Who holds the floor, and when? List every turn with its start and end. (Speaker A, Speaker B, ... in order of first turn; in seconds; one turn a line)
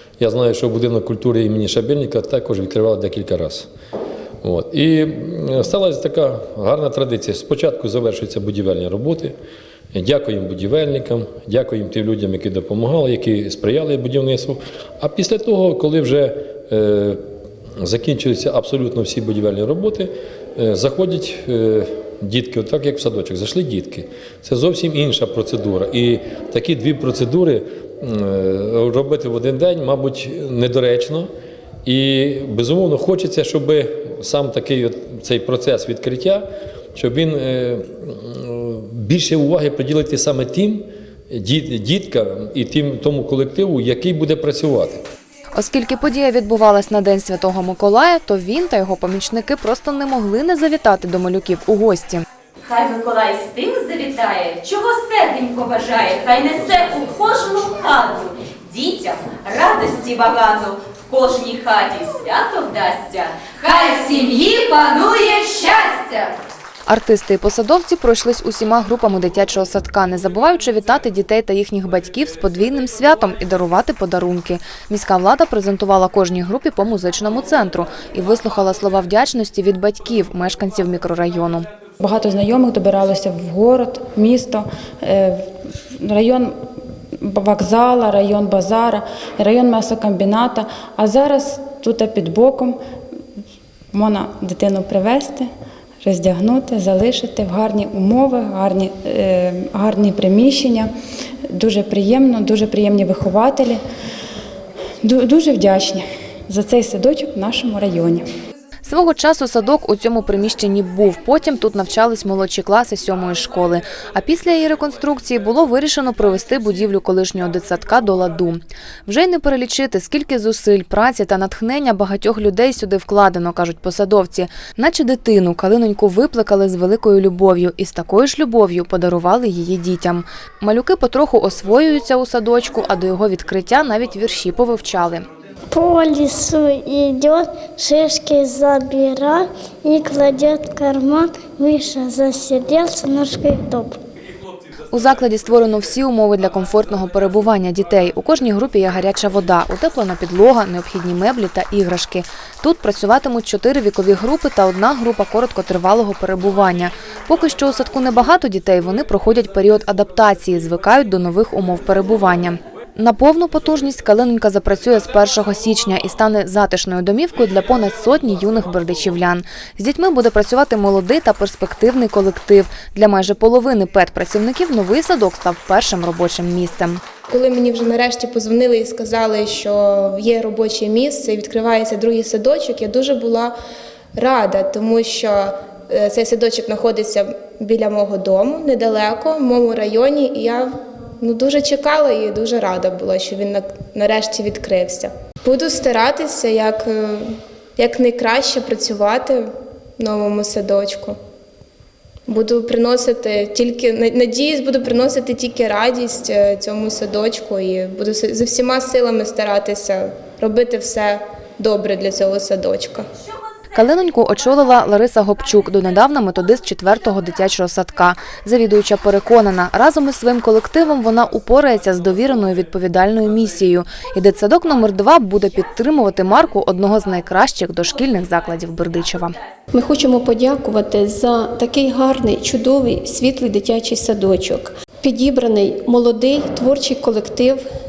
Speaker A: 0.2-3.7
Speaker A: 4.4-9.3
Speaker A: 9.9-17.2
Speaker A: 17.8-31.3
Speaker A: 31.8-36.4
Speaker A: 36.9-45.0
Speaker B: 45.5-52.2
Speaker C: 52.6-66.3
Speaker B: 66.9-81.7
Speaker D: 82.0-85.4
Speaker D: 86.0-86.5
Speaker D: 87.2-92.8
Speaker D: 93.9-95.5
Speaker D: 96.0-100.9
Speaker D: 101.6-103.8
Speaker D: 105.0-108.2
Speaker B: 108.8-135.2
Speaker E: 135.7-144.0
Speaker B: 144.9-177.0
Speaker F: 177.3-183.5
Speaker F: 184.2-199.5
Speaker F: 200.0-201.1
Speaker F: 202.3-213.1
Speaker B: 213.7-229.3
Speaker G: 229.7-237.6